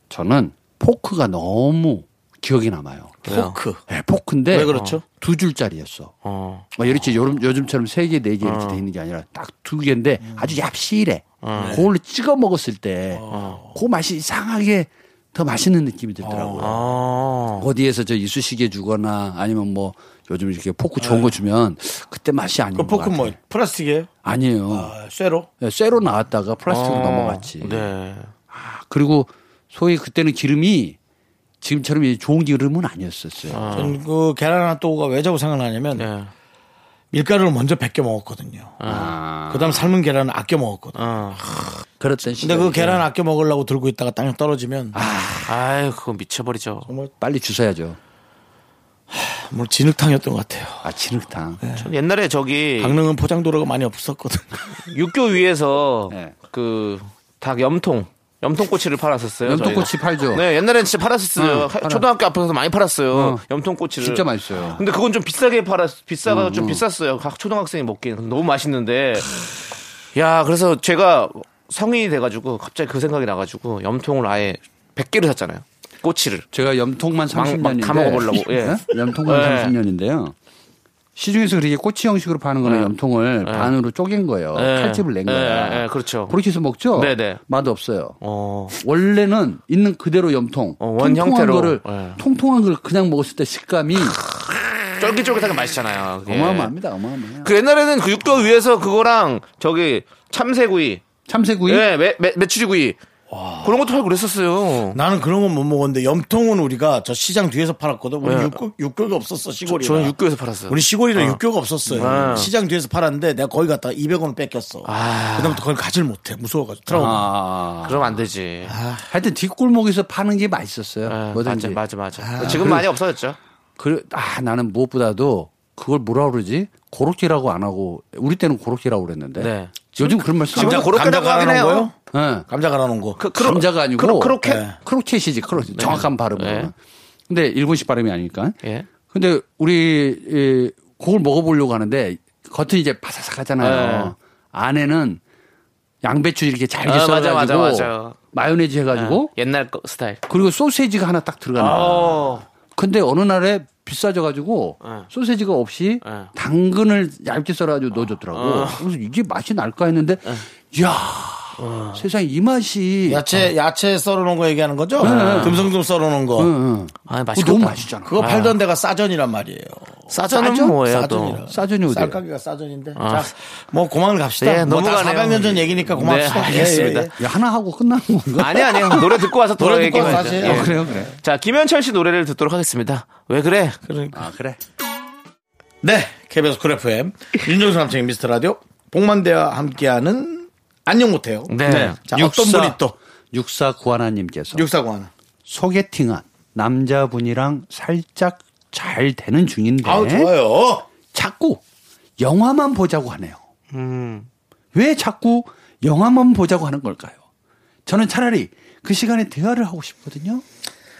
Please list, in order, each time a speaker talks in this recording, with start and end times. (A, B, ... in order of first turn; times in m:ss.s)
0:00.1-0:03.2 A
0:03.2-0:03.6 B
0:03.2-0:03.8 C
0:03.9-0:06.1 A
0:04.5-0:05.0 C
0:04.6-0:05.0 B
0:06.2-0:06.7 B
0:06.8-0:16.9 A
0:08.4-0:08.8 B
0:11.4-0:11.8 B
0:11.6-0:11.8 C
0:13.1-0:13.8 C
0:13.3-0:13.6 B
0:16.2-0:16.7 C
0:16.6-0:17.7 B
0:17.6-0:23.4 A
0:21.0-0:21.3 C
0:22.8-0:24.1 C
0:24.2-0:24.9 A
0:24.7-0:25.5 C
0:25.6-0:27.9 A
0:26.7-0:28.3 B
0:28.5-0:31.0 A
0:31.6-0:33.9 A
0:33.5-0:34.0 B
0:33.7-0:36.0 C
0:36.0-0:36.3 B
0:37.1-0:38.9 C
0:38.8-0:39.2 B
0:38.8-0:39.9 A
0:39.5-0:41.7 C
0:41.0-0:41.4 B
0:42.0-0:43.0 A
0:42.4-0:45.0 C
0:44.9-0:45.5 A
0:45.5-0:46.9 B
0:46.9-0:47.1 C
0:47.2-0:48.0 A
0:49.1-0:51.0 C
0:50.8-0:51.6 A
0:51.6-0:51.9 C
0:51.7-0:53.0 B
0:52.8-0:54.7 C
0:54.8-1:09.4 B
0:56.1-0:56.3 A
0:59.4-1:00.4 A
1:01.4-1:02.0 A
1:03.1-1:03.4 A
1:04.0-1:04.8 A
1:06.2-1:06.8 A
1:10.1-1:16.4 B
1:16.5-1:20.3 A
1:17.3-1:19.8 B
1:21.2-1:28.2 A
1:22.6-1:23.7 B
1:24.5-1:26.4 B
1:26.9-1:27.4 B
1:28.2-1:28.8 B
1:28.7-1:34.3 A
1:30.8-1:32.2 B
1:35.0-1:36.7 B
1:36.2-1:37.5 A
1:37.4-1:41.0 B
1:41.3-1:41.9 A
1:41.6-1:43.0 B
1:43.3-1:43.8 C
1:43.6-1:45.0 B
1:44.9-1:50.2 C
1:48.2-1:48.6 B
1:49.6-1:51.4 B
1:50.7-1:57.2 C
1:51.9-1:52.5 B
1:54.8-1:55.6 B
1:56.9-1:58.1 A
1:57.8-1:58.7 B
1:58.7-1:59.1 C
1:59.1-2:01.8 A
2:01.0-2:03.4 B
2:02.2-2:02.8 C
2:02.4-2:02.8 A
2:03.8-2:10.9 A
2:09.4-2:11.9 B
2:10.5-2:12.0 C
2:12.0-2:12.5 A
2:12.5-2:13.2 C
2:13.2-2:14.6 B
2:13.3-2:16.7 A
2:14.4-2:14.8 C
2:15.7-2:16.7 B
2:17.3-2:25.2 A
2:18.6-2:18.9 B
2:23.6-2:24.1 B
2:26.0-2:29.3 A
2:26.8-2:28.2 B
2:28.9-2:30.2 B
2:30.3-2:43.3 A
2:31.6-2:32.4 B
2:34.8-2:35.1 B
2:36.0-2:36.3 B
2:38.3-2:38.8 B
2:41.6-2:42.0 B
2:43.1-2:46.5 C
2:45.0-2:45.6 A
2:45.0-2:45.7 B
2:46.4-2:48.3 A
2:47.1-2:48.6 B
2:48.0-2:57.1 C
2:50.1-2:51.4 B
2:50.4-2:50.7 A
2:51.4-2:52.2 A
2:53.0-2:53.3 B
2:54.4-2:57.1 B
2:57.2-2:59.2 A
2:58.4-3:03.8 B
2:59.6-3:01.1 C
3:00.0-3:01.2 A
3:03.8-3:04.3 C
3:04.1-3:04.6 A
3:05.8-3:13.0 C
3:11.5-3:12.0 B
3:11.6-3:14.6 A
3:14.5-3:15.1 C
3:15.4-3:20.3 A
3:19.8-3:20.9 C
3:21.0-3:21.6 A
3:22.2-3:23.4 A
3:23.7-3:24.3 B
3:24.7-3:27.2 A
3:27.8-3:30.4 A